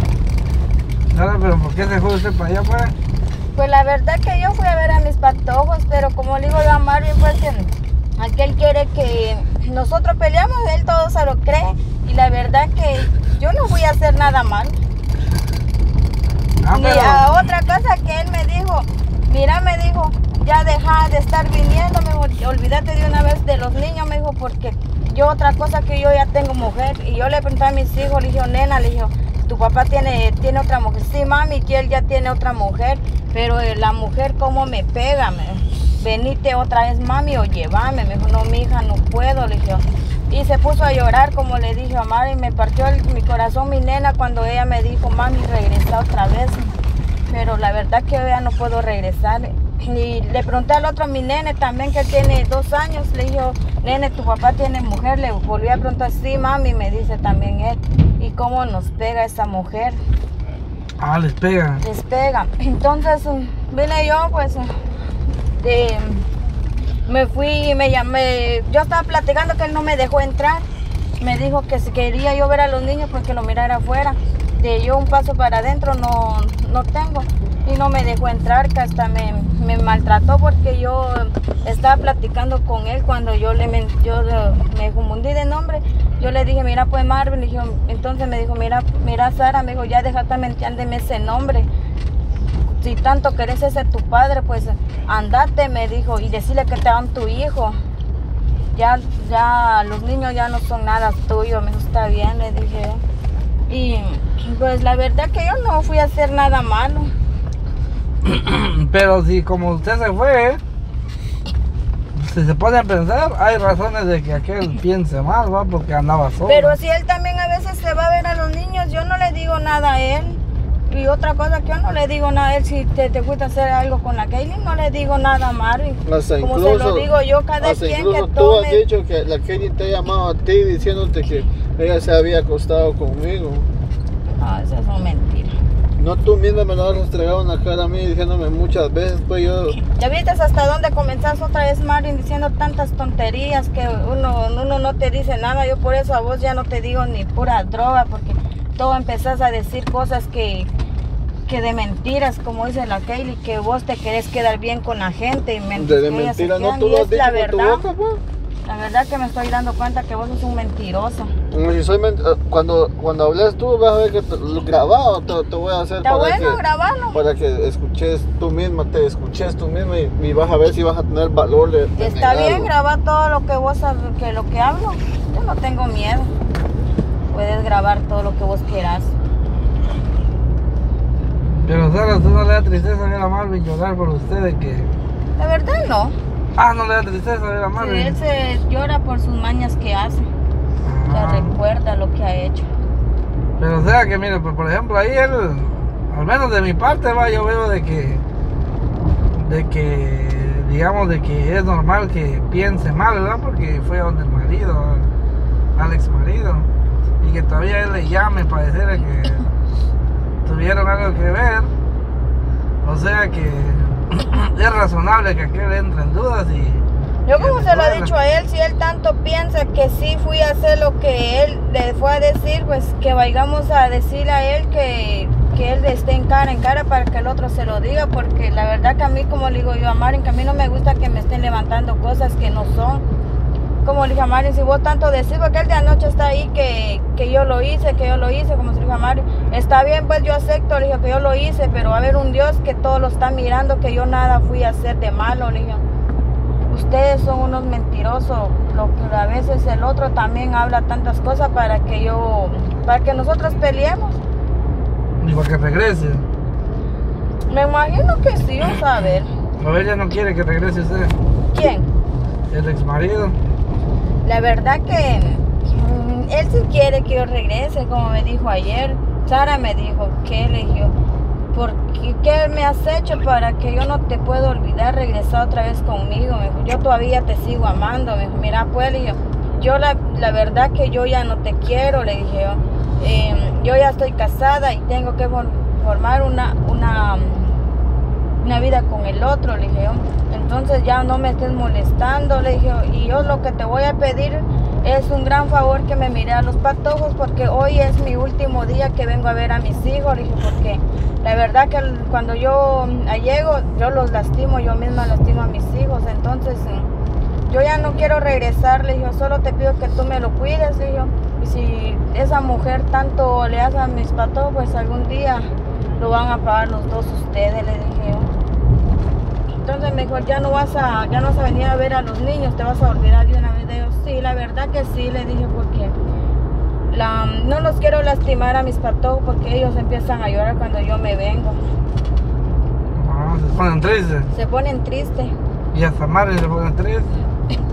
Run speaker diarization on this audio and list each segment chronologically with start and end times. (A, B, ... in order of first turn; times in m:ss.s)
0:01.1-0:02.9 A
0:03.6-0:14.8 B
0:16.6-0:17.3 A
0:16.7-0:46.8 B
0:47.3-1:00.0 B
1:01.0-1:01.8 A
1:01.8-1:04.7 B
1:05.6-1:06.3 B
1:07.1-1:10.7 B
1:11.2-1:31.7 B
1:32.7-1:37.8 B
1:38.7-1:43.0 B
1:43.7-1:47.1 B
1:48.2-1:50.6 A
1:52.1-1:56.8 A
1:56.4-2:08.8 B
2:06.1-2:07.1 C
2:07.6-2:13.7 C
2:14.4-2:15.5 B
2:16.0-2:19.8 C
2:19.9-2:30.7 B
2:31.5-2:37.8 B
2:35.8-2:38.2 C
2:38.6-2:41.3 B
2:41.5-2:46.6 C
2:46.0-2:47.2 B
2:47.1-2:52.7 C
2:52.0-2:56.3 B
2:57.3-2:59.1 B
3:01.5-3:04.9 A
3:05.4-3:06.2 B
3:06.6-3:08.2 A
3:07.8-3:10.3 B
3:10.8-3:11.5 A
3:11.1-3:12.7 B
3:13.6-3:18.2 A
3:19.4-3:25.1 A
3:25.8-3:26.7 A
3:27.2-3:29.5 A
3:30.4-3:31.7 A
3:32.8-3:38.1 A
3:37.3-3:53.0 B
3:53.8-4:05.8 B
4:06.7-4:14.2 B
4:15.2-4:16.2 A
4:17.5-4:19.3 B
4:19.6-4:21.2 A
4:21.5-4:21.9 B
4:22.5-4:23.4 A
4:24.2-4:31.0 B
4:31.5-4:47.6 B
4:48.4-5:06.9 B
5:07.5-5:18.3 B
5:19.6-5:26.0 B
5:26.9-5:31.6 B
5:32.9-5:34.3 A
5:34.3-5:35.3 B
5:35.7-5:37.1 A